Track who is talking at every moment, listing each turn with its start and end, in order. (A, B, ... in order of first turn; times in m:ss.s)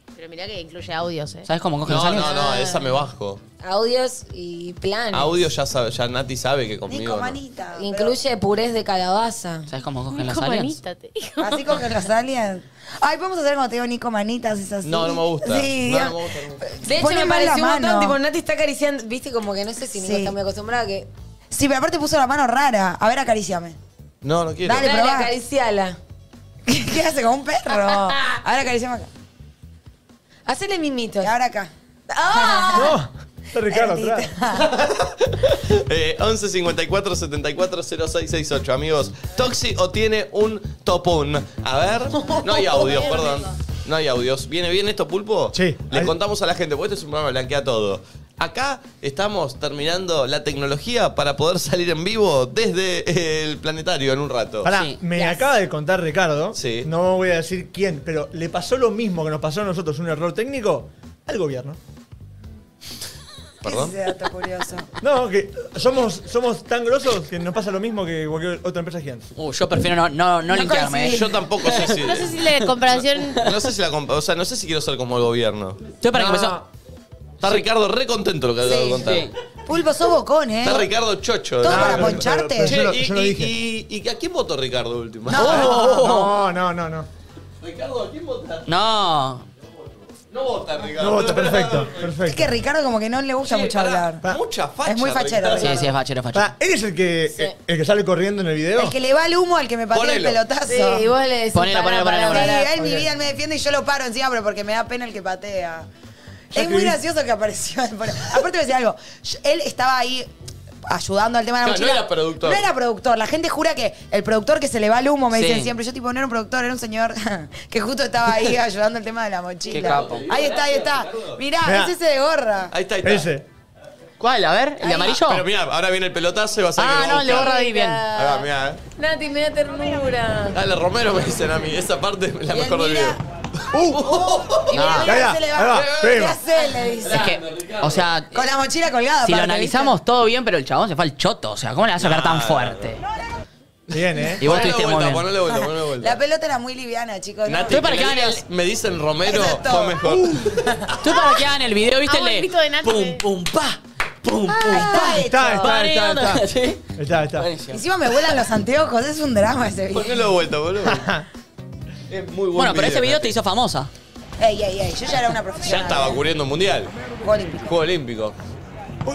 0:00.2-0:01.5 A
0:01.5-0:02.3 B
0:01.9-0:03.4 C
0:02.1-0:03.0 D
0:03.6-0:05.5 D
0:05.1-0:07.4 C
0:06.9-0:08.2 E
0:07.8-0:09.7 D
0:09.7-0:10.8 B
0:10.1-0:11.6 A
0:11.4-0:18.2 E
0:14.8-0:16.6 C
0:16.9-0:21.1 D
0:19.9-0:20.4 E
0:21.5-0:23.8 E
0:24.2-0:24.9 C
0:24.6-0:25.3 E
0:24.8-0:26.0 D
0:26.7-0:29.1 E
0:27.9-0:28.4 D
0:30.5-0:31.3 D
0:31.2-0:31.7 E
0:32.1-0:33.0 D
0:32.3-0:33.0 E
0:32.7-0:34.3 F
0:33.7-0:34.7 E
0:34.6-0:54.7 C
0:42.2-0:43.2 D
0:45.5-0:46.1 F
0:54.6-1:01.8 F
0:54.7-0:55.0 B
0:56.5-0:56.9 C
1:03.6-1:04.9 E
1:03.6-1:04.0 C
1:05.0-1:09.3 F
1:09.4-1:11.9 B
1:10.5-1:11.4 E
1:10.8-1:12.4 C
1:11.9-1:13.4 A
1:13.4-1:15.8 C
1:16.0-1:16.6 B
1:16.1-1:16.6 F
1:17.4-1:19.3 C
1:18.6-1:19.1 E
1:19.0-1:19.3 B
1:19.7-1:20.9 E
1:20.6-1:25.7 C
1:21.6-1:22.8 E
1:21.7-1:23.5 F
1:25.3-1:26.1 E
1:25.4-1:26.3 B
1:25.4-1:27.1 F
1:27.6-1:28.7 C
1:28.7-1:29.4 B
1:30.3-1:32.1 C
1:31.0-1:32.5 F
1:32.2-1:34.2 E
1:33.4-1:35.8 C
1:34.8-1:35.9 E
1:35.6-1:36.5 B
1:36.3-1:39.0 F
1:38.8-1:41.1 E
1:39.9-1:40.4 C
1:40.7-1:42.8 D
1:41.5-1:42.5 B
1:42.3-1:45.9 E
1:42.8-1:43.1 F
1:46.5-1:50.3 E
1:46.6-1:47.0 F
1:50.9-2:02.7 E
1:51.6-1:52.6 C
1:55.3-1:55.7 B
1:59.7-2:00.3 B
1:59.8-2:01.4 C
2:01.6-2:01.9 F
2:02.7-2:03.3 C
2:03.0-2:03.4 F
2:04.2-2:05.4 B
2:04.8-2:05.2 E
2:05.0-2:08.8 C
2:06.8-2:08.0 B
2:07.3-2:10.6 D
2:10.5-2:13.2 C
2:12.5-2:13.2 E
2:13.7-2:14.1 F
2:13.8-2:16.3 C
2:14.0-2:17.3 E
2:14.7-2:15.1 B
2:15.0-2:16.4 F
2:17.0-2:18.1 C
2:17.1-2:18.3 B
2:18.3-2:20.0 E
2:19.2-2:23.0 B
2:22.0-2:22.9 C
2:23.9-2:24.4 F
2:24.4-2:26.2 C
2:24.4-2:25.3 B
2:25.5-2:28.2 E
2:27.4-2:30.6 C
2:27.7-2:28.4 B
2:29.2-2:30.9 E
2:31.0-2:37.8 B
2:31.1-2:31.4 A
2:32.1-2:33.2 A
2:34.6-2:35.7 E
2:35.2-2:36.4 F
2:37.0-2:37.5 F
2:37.7-2:40.3 E
2:39.9-2:41.1 C
2:40.8-2:41.2 F
2:42.1-2:43.3 C
2:42.6-2:43.9 B
2:44.4-2:46.2 E
2:45.6-2:46.9 C
2:47.2-2:47.7 E
2:47.6-2:48.4 C